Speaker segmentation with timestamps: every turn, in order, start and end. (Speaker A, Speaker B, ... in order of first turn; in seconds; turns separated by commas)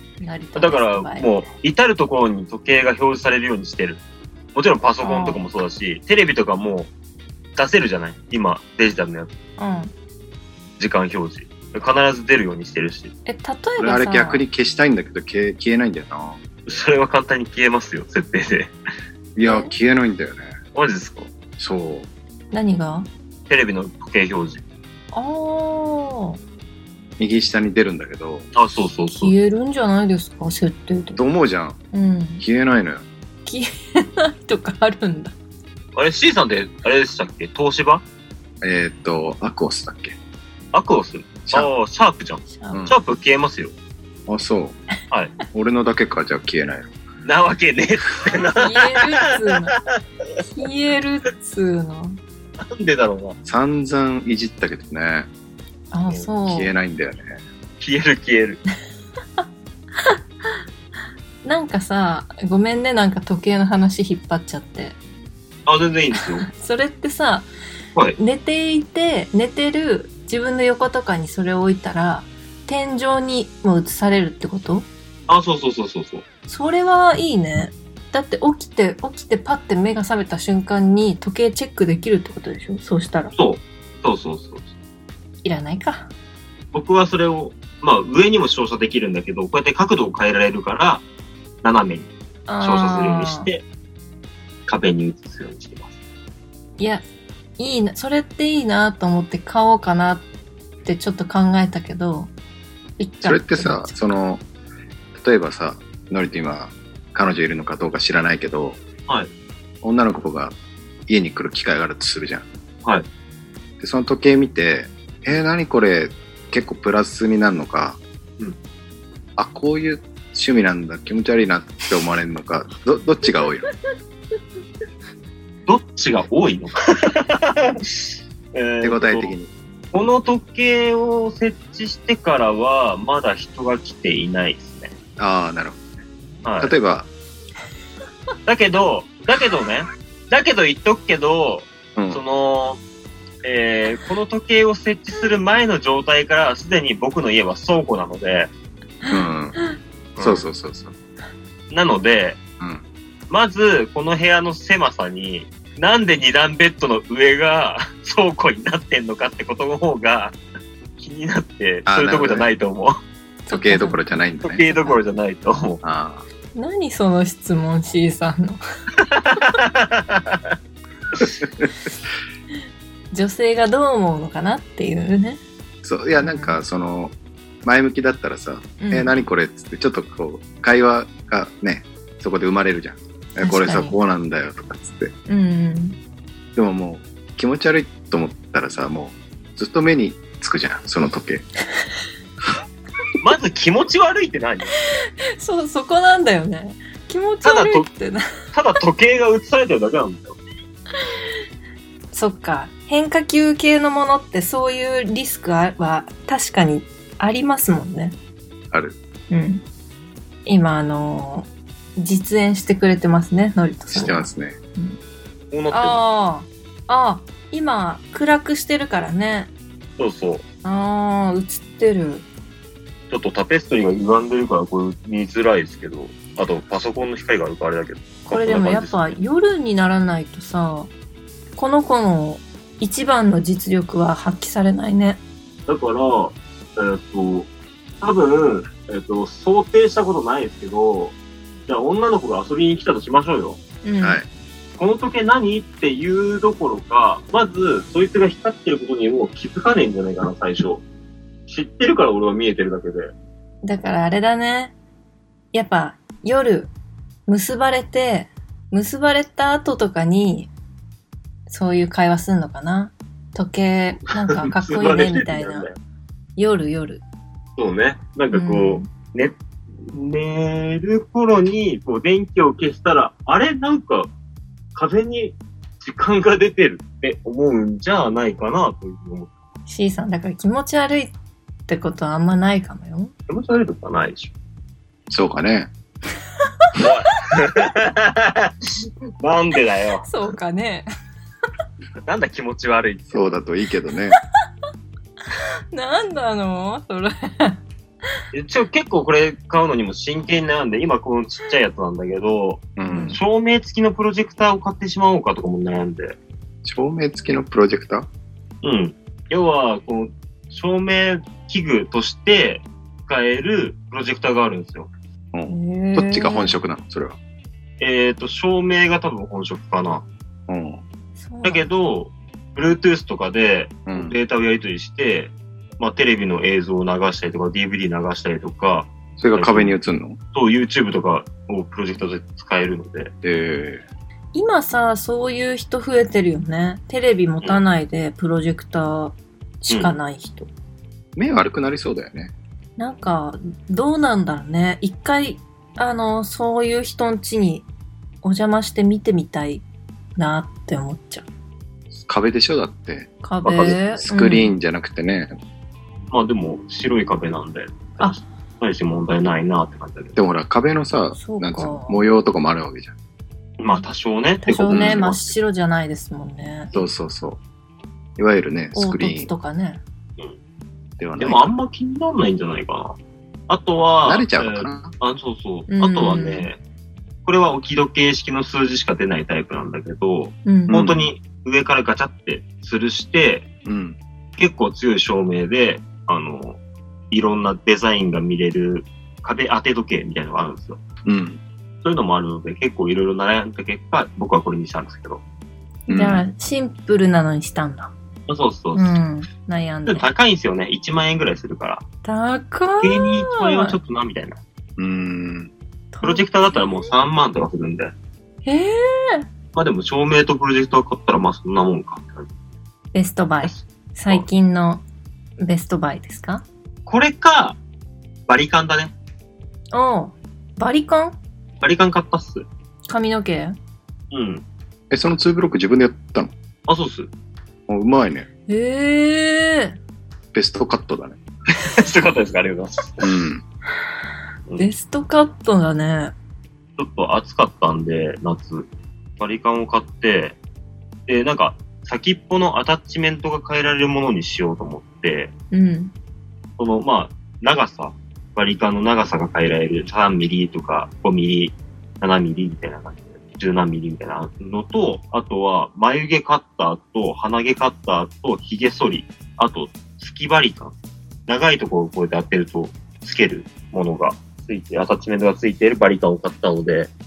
Speaker A: 0.2-1.4, Speaker B: 0.6-6.9, Speaker A: 5.0-5.5, Speaker B: 7.5-9.3, Speaker A: 9.6-9.9, Speaker B: 10.8-13.1, Speaker A: 13.2-14.4, Speaker C: 13.8-16.4, Speaker B: 16.6-18.7, Speaker C: 19.3-20.5, Speaker A: 19.4-19.7, Speaker B: 20.7-21.3, Speaker C: 21.6-22.1, Speaker A: 22.5-23.1, Speaker B: 23.5-24.6, Speaker A: 25.1-26.4, Speaker C: 27.2-28.4, Speaker B: 28.5-29.3, Speaker A: 29.1-31.2, Speaker C: 31.1-31.8, Speaker A: 31.9-32.4, Speaker C: 32.4-33.0, Speaker A: 33.4-35.3, Speaker B: 35.9-38.0, Speaker C: 38.6-40.1, Speaker B: 40.7-43.7, Speaker A: 42.5-42.9, Speaker C: 42.7-43.0, Speaker C: 44.3-44.8, Speaker C: 45.5-46.9, Speaker B: 47.2-49.8, Speaker A: 48.4-49.8, Speaker A: 50.5-52.2, Speaker B: 52.6-53.4, Speaker C: 53.4-55.3, Speaker A: 55.9-56.7, Speaker C: 56.4-57.4, Speaker B: 57.8-58.6, Speaker A: 61.4-65.0, Speaker B: 65.7-66.5, Speaker A: 66.4-67.5, Speaker A: 68.2-74.9, Speaker B: 75.3-76.2, Speaker A: 76.5-83.3, Speaker B: 83.3-84.7, Speaker A: 85.4-86.1, Speaker B: 86.7-91.0, Speaker B: 91.6-92.1, Speaker A: 92.5-93.5, Speaker B: 92.6-93.6, Speaker B: 94.7-95.9, Speaker A: 96.8-97.0, Speaker A: 97.6-100.2, Speaker A: 100.8-102.3, Speaker A: 103.0-104.0, Speaker C: 103.2-104.4, Speaker C: 105.1-108.8, Speaker C: 109.8-110.5, Speaker C: 111.1-112.4, Speaker C: 113.8-118.0, Speaker C: 119.4-123.7, Speaker B: 125.7-129.3, Speaker C: 128.8-129.5, Speaker B: 129.9-134.9, Speaker C: 135.2-136.0, Speaker B: 136.4-136.7, Speaker C: 136.6-137.1, Speaker B: 138.4-142.8, Speaker B: 143.4-148.5, Speaker C: 149.1-149.6, Speaker B: 150.2-150.4, Speaker C: 150.2-150.9, Speaker B: 151.7-152.4, Speaker B: 153.3-160.3, Speaker B: 161.0-162.9, Speaker C: 161.9-162.5, Speaker A: 163.4-164.0, Speaker C: 163.5-164.6, Speaker B: 164.4-165.8, Speaker A: 164.7-165.0, Speaker C: 165.8-166.2, Speaker A: 166.5-168.6, Speaker B: 169.0-170.5, Speaker C: 171.4-171.7, Speaker A: 173.1-175.4, Speaker C: 175.8-185.1, Speaker A: 176.2-176.6, Speaker A: 178.8-179.2, Speaker A: 183.4-184.0, Speaker A: 185.3-186.0, Speaker C: 186.6-191.4, Speaker B: 193.2-194.7, Speaker A: 195.4-198.2, Speaker B: 197.4-197.9, Speaker B: 198.5-200.4, Speaker A: 202.1-208.1, Speaker A: 209.3-209.6, Speaker A: 210.4-215.0, Speaker C: 213.9-214.6, Speaker B: 215.5-216.0, Speaker A: 215.7-219.5, Speaker B: 220.0-220.4, Speaker A: 220.6-222.2, Speaker B: 223.1-229.2, Speaker A: 228.3-230.9, Speaker A: 231.6-235.2, Speaker B: 235.7-237.5, Speaker B: 238.0-241.2, Speaker B: 241.7-243.6, Speaker A: 243.8-244.2, Speaker C: 244.0-244.3, Speaker B: 244.8-250.8, Speaker B: 251.5-253.1, Speaker A: 253.6-254.7, Speaker A: 255.5-256.7, Speaker A: 257.3-260.5, Speaker A: 261.5-265.7, Speaker B: 264.4-265.8, Speaker A: 266.4-267.0, Speaker B: 267.6-274.1, Speaker A: 268.3-268.9, Speaker B: 274.7-279.3, Speaker A: 279.7-281.1, Speaker A: 281.7-283.1, Speaker B: 283.3-284.3, Speaker C: 285.1-285.7, Speaker B: 286.8-290.1, Speaker A: 290.0-290.9, Speaker B: 292.1-293.3, Speaker C: 293.1-294.2, Speaker A: 295.7-297.6, Speaker B: 298.3-306.1, Speaker C: 302.8-303.2, Speaker A: 302.9-303.2, Speaker C: 306.6-308.1, Speaker B: 308.6-314.9, Speaker C: 315.3-317.2, Speaker A: 315.5-316.5, Speaker B: 317.8-320.0, Speaker C: 320.5-320.8, Speaker A: 321.2-321.7, Speaker B: 321.4-329.8, Speaker C: 323.9-324.2, Speaker C: 329.2-330.2, Speaker B: 330.3-333.1, Speaker C: 333.2-333.8, Speaker A: 334.3-340.5, Speaker C: 341.1-342.3, Speaker A: 342.8-347.6, Speaker A: 348.2-349.6, Speaker A: 350.1-351.2, Speaker C: 351.9-355.4, Speaker A: 353.2-354.5, Speaker B: 353.5-353.8, Speaker B: 356.1-360.2, Speaker C: 360.1-362.9, Speaker A: 361.1-362.0, Speaker B: 363.6-365.3, Speaker A: 364.4-366.7, Speaker C: 364.7-365.0, Speaker C: 366.7-367.4, Speaker C: 368.2-369.3, Speaker A: 368.7-369.8, Speaker C: 371.0-371.5, Speaker B: 371.2-372.9, Speaker B: 373.5-376.6, Speaker C: 374.0-374.9, Speaker A: 375.7-376.5, Speaker B: 377.2-383.5, Speaker A: 380.4-380.8, Speaker C: 380.7-381.1, Speaker C: 383.6-384.0, Speaker B: 384.4-386.6, Speaker B: 387.1-390.8, Speaker C: 391.0-391.4, Speaker B: 391.8-395.2, Speaker C: 395.9-396.2, Speaker A: 395.9-397.9, Speaker B: 398.3-399.0, Speaker A: 398.7-400.1, Speaker B: 399.9-401.8, Speaker A: 402.0-403.8, Speaker B: 402.8-404.4, Speaker C: 404.8-405.5, Speaker A: 405.9-406.9, Speaker B: 406.0-407.9, Speaker A: 408.4-409.2, Speaker B: 409.5-412.3, Speaker A: 412.9-414.8, Speaker B: 413.4-414.2, Speaker A: 415.4-416.4, Speaker B: 416.9-417.6, Speaker B: 418.3-418.9, Speaker A: 419.7-421.2, Speaker B: 421.6-422.4, Speaker A: 422.9-423.6, Speaker B: 424.1-424.4, Speaker C: 424.9-426.3, Speaker B: 426.7-427.1, Speaker C: 427.7-428.3, Speaker A: 428.5-429.8, Speaker C: 430.3-431.2, Speaker B: 431.5-433.2, Speaker C: 433.0-433.4, Speaker A: 434.6-436.1, Speaker B: 436.8-438.7, Speaker B: 439.2-440.4, Speaker B: 441.1-445.3, Speaker A: 445.5-445.9, Speaker B: 446.6-460.7, Speaker B: 461.3-466.9